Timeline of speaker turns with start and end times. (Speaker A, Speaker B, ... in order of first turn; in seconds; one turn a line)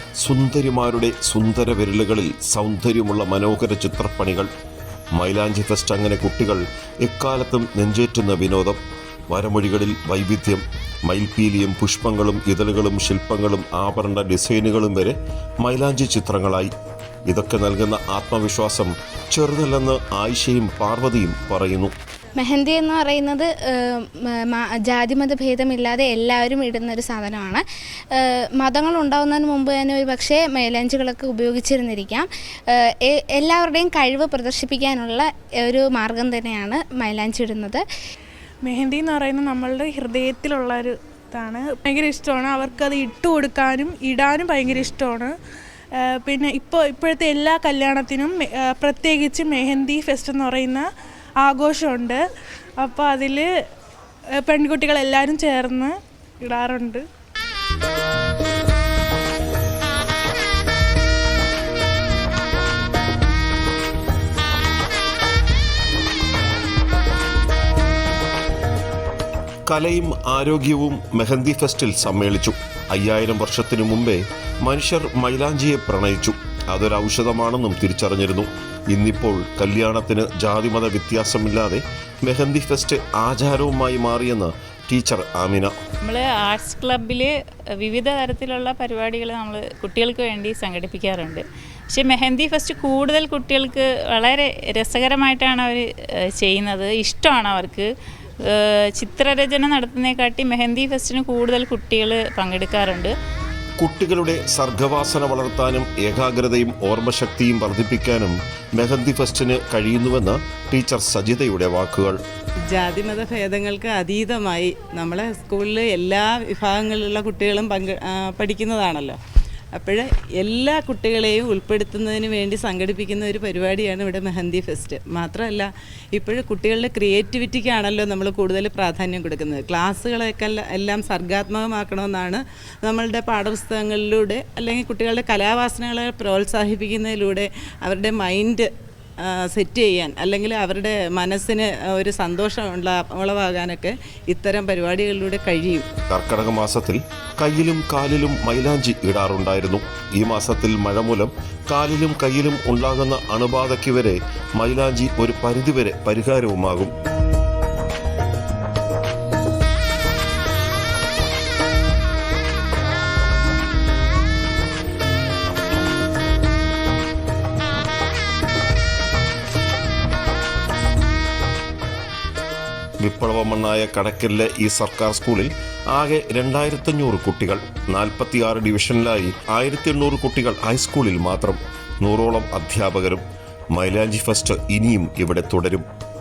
Speaker A: 0.2-4.5
Speaker A: 5.1-16.7
Speaker A: 17.3-21.9
Speaker B: 22.4-37.8
Speaker C: 38.6-45.3
Speaker C: 46.1-50.9
Speaker C: 51.4-52.2
Speaker C: 52.8-53.5
Speaker C: 54.4-57.0
Speaker A: 69.7-85.7
Speaker D: 86.0-95.8
Speaker D: 96.4-97.9
Speaker D: 98.5-103.1
Speaker A: 103.8-112.2
Speaker E: 112.7-119.2
Speaker E: 119.7-138.7
Speaker E: 139.2-145.9
Speaker A: 146.1-156.9
Speaker A: 173.0-185.9